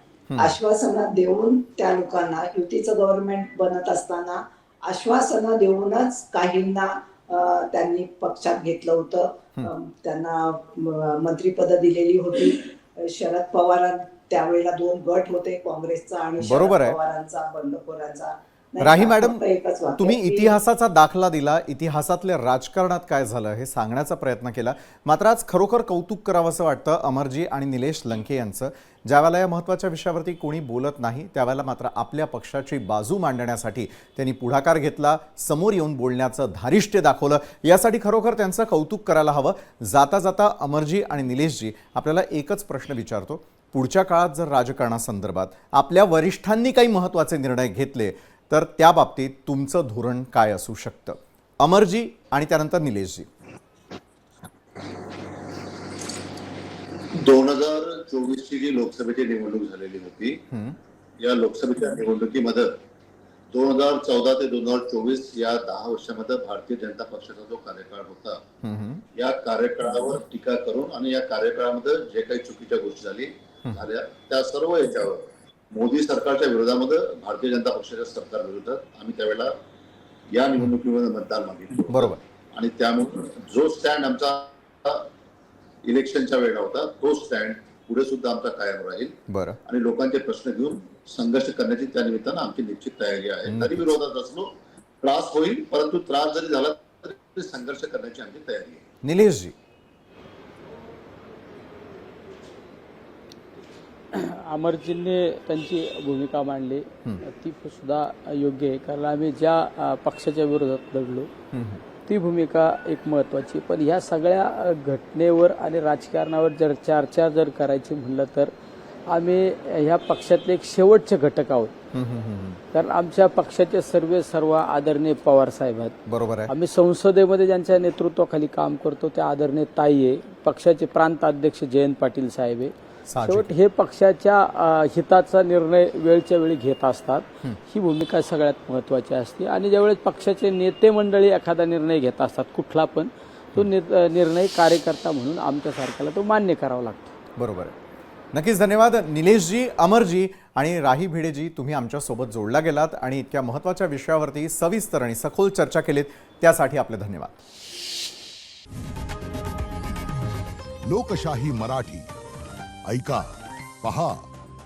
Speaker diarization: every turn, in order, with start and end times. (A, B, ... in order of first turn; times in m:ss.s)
0:00.3-0:00.6 A
0:00.4-0:20.6 B
0:16.4-0:17.0 A
0:18.8-0:19.4 A
0:20.0-0:53.3 A
0:57.1-1:00.4 C
1:00.5-1:00.8 A
1:01.2-1:02.7 C
1:03.5-1:08.4 C
1:08.6-1:09.0 A
1:09.1-1:19.5 C
1:20.3-1:25.1 C
1:21.9-1:22.2 A
1:25.8-1:38.8 C
1:29.3-1:29.6 A
1:33.4-1:33.9 A
1:39.0-1:39.6 A
1:44.1-1:51.3 D
1:51.5-1:51.8 A
1:52.0-1:58.5 D
1:59.1-2:01.7 D
2:01.9-2:02.6 A
2:02.7-2:06.0 D
2:06.1-2:06.5 A
2:06.5-2:27.1 D
2:13.1-2:13.5 A
2:27.4-2:27.7 A
2:28.3-2:37.3 A
2:40.9-2:42.1 E
2:42.9-2:44.3 E